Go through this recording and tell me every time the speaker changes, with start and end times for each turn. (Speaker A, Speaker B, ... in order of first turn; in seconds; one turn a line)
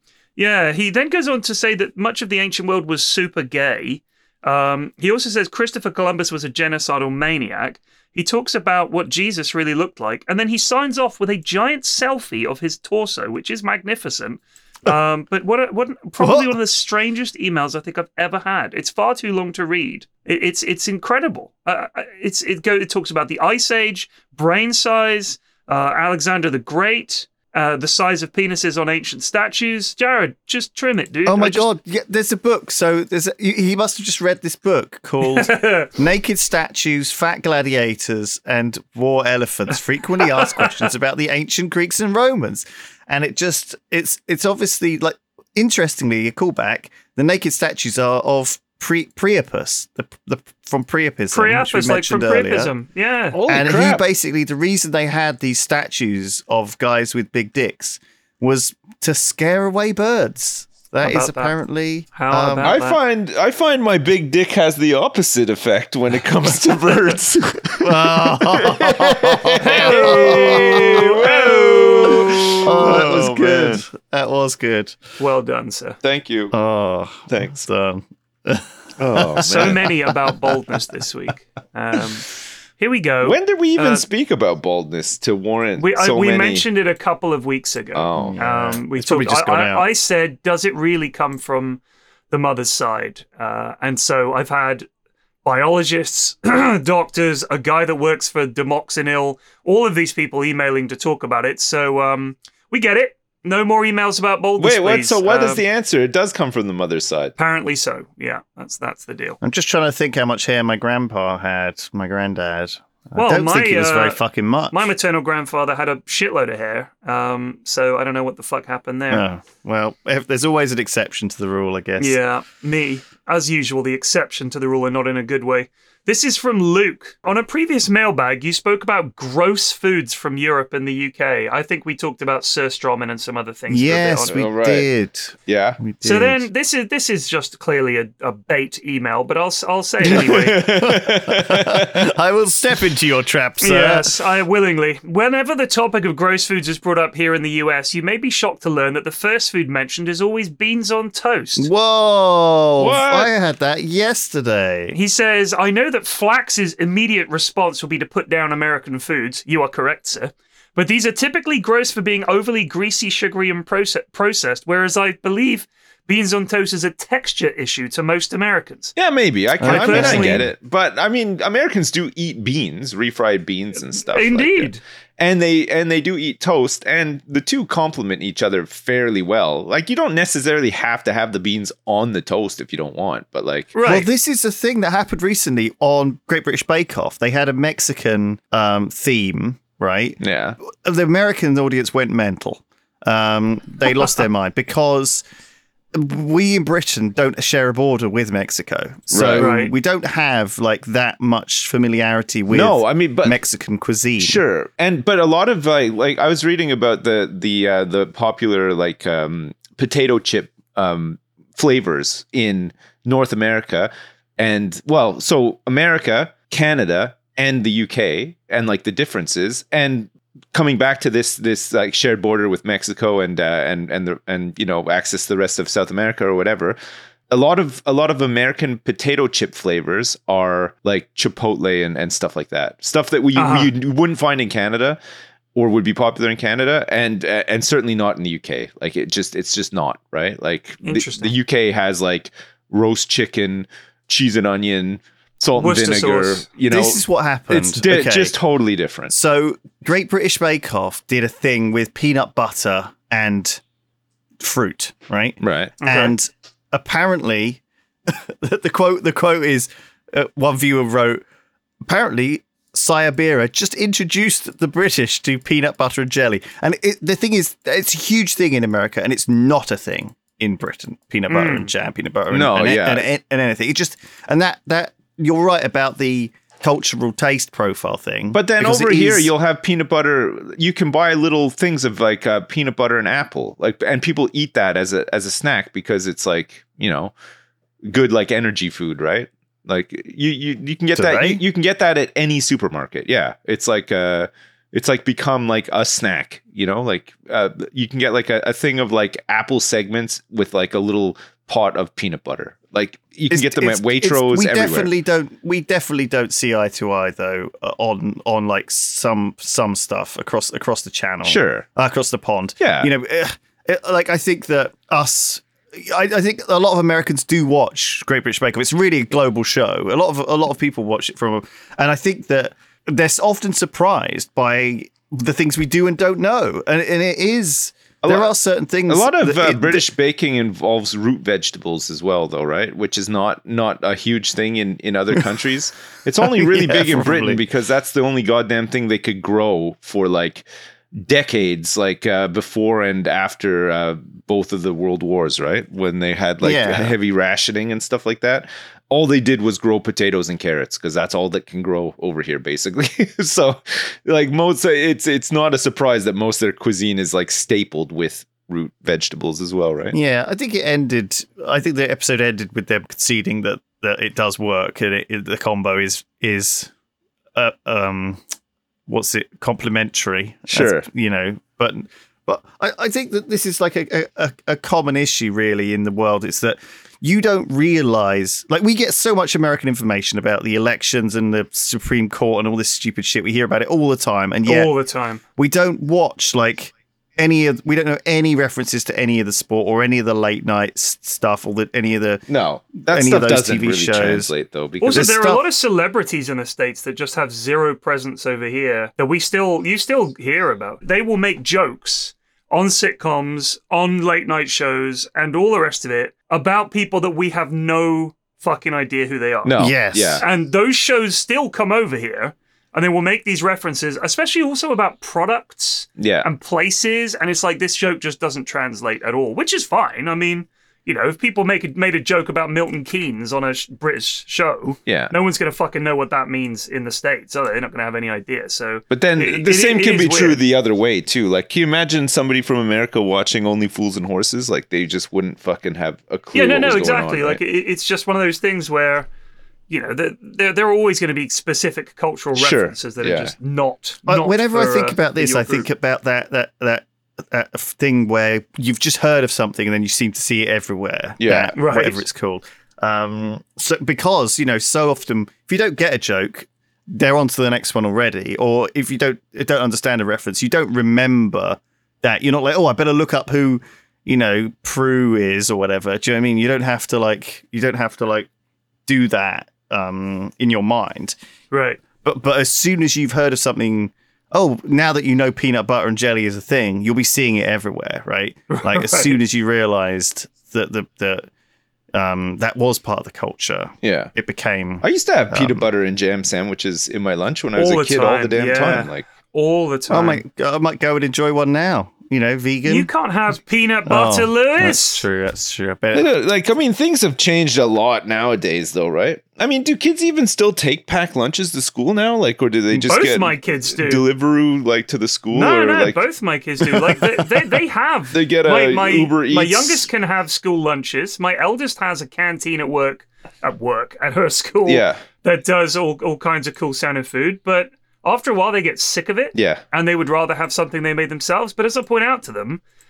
Speaker A: 0.3-31.7
Speaker B: 16.2-16.6
Speaker B: 31.2-52.7
Speaker A: 35.2-35.9
Speaker A: 40.2-40.7
Speaker A: 51.3-53.4
Speaker C: 53.3-54.0
Speaker B: 53.5-62.7
Speaker A: 61.0-61.5
Speaker A: 62.1-63.0
Speaker C: 62.6-73.8
Speaker B: 67.8-71.1
Speaker A: 69.6-72.4
Speaker B: 72.0-75.0
Speaker A: 75.2-76.0
Speaker C: 76.0-76.5
Speaker B: 76.5-79.9
Speaker C: 77.3-77.6
Speaker C: 79.0-79.9
Speaker A: 79.4-82.2
Speaker A: 82.8-84.0
Speaker C: 83.2-86.7
Speaker A: 85.8-94.9
Speaker C: 87.9-88.5
Speaker B: 88.1-89.9
Speaker A: 95.4-105.6
Speaker C: 104.6-107.3
Speaker A: 107.3-109.4
Speaker B: 109.4-114.9
Speaker A: 113.2-114.2
Speaker A: 114.7-119.3
Speaker B: 119.1-122.2
Speaker A: 122.0-134.4
Speaker B: 133.7-136.4
Speaker C: 134.3-134.9
Speaker C: 135.5-135.8
Speaker A: 136.0-140.6
Speaker C: 140.0-142.1
Speaker B: 140.1-144.2
Speaker A: 143.6-151.7
Speaker B: 151.6-154.9
Speaker C: 152.8-153.3
Speaker A: 154.9-168.9
Speaker C: 168.9-183.7
Speaker B: 169.6-170.5
Speaker A: 169.6-170.4
Speaker A: 173.9-174.8
Speaker A: 183.7-184.1
Speaker B: 183.8-195.2
Speaker C: 190.2-190.6
Speaker B: 195.9-204.4
Speaker C: 199.1-199.5
Speaker A: 199.4-199.7
Speaker C: 202.5-203.4
Speaker C: 204.2-226.8
Speaker C: 227.3-235.0
Speaker A: 233.3-233.7
Speaker C: 235.5-249.1
Speaker A: 240.8-241.3
Speaker A: 245.6-246.4
Speaker B: 246.7-248.4
Speaker B: 249.1-253.6
Speaker B: 254.4-261.2
Speaker C: 255.4-255.7
Speaker A: 255.8-256.1
Speaker B: 261.8-279.3
Speaker A: 271.3-271.7
Speaker C: 272.3-273.1
Speaker C: 278.3-287.1
Speaker C: 287.9-304.9
Speaker B: 290.9-291.4
Speaker B: 303.3-329.9
Speaker C: 311.2-311.6
Speaker C: 312.6-312.9
Speaker C: 328.0-328.3
Speaker C: 328.9-360.0
Speaker B: 336.2-337.4
Speaker B: 346.4-346.9
Speaker B: 359.9-366.7
Speaker B: 367.3-368.2
Speaker B: 368.9-384.7
Speaker C: 370.5-370.8
Speaker A: 384.4-385.2
Speaker B: 385.4-392.2
Speaker C: 392.3-395.2
Speaker B: 392.8-394.3
Speaker A: 394.8-409.5
Speaker B: 394.9-395.4
Speaker C: 409.4-410.2
Speaker B: 409.6-410.2
Speaker A: 410.2-430.4
Speaker C: 416.0-416.3
Speaker C: 424.9-425.1
Speaker C: 428.9-437.4
Speaker A: 436.3-439.1
Speaker A: 439.7-445.7
Speaker C: 442.4-443.3
Speaker B: 444.1-468.3
Speaker C: 451.2-451.5
Speaker A: 451.5-452.0
Speaker B: 468.9-471.1
Speaker A: 471.5-471.8
Speaker B: 472.0-481.3
Speaker A: 478.5-479.1
Speaker B: 481.9-485.7
Speaker C: 483.8-484.1
Speaker C: 484.8-489.1
Speaker A: 487.6-490.2
Speaker B: 489.9-492.9
Speaker A: 492.6-495.0
Speaker B: 493.9-496.1
Speaker C: 495.9-506.0
Speaker A: 502.9-504.0
Speaker A: 505.3-522.6
Speaker C: 506.7-507.0
Speaker C: 508.1-509.9
Speaker C: 514.6-515.0
Speaker C: 519.3-519.6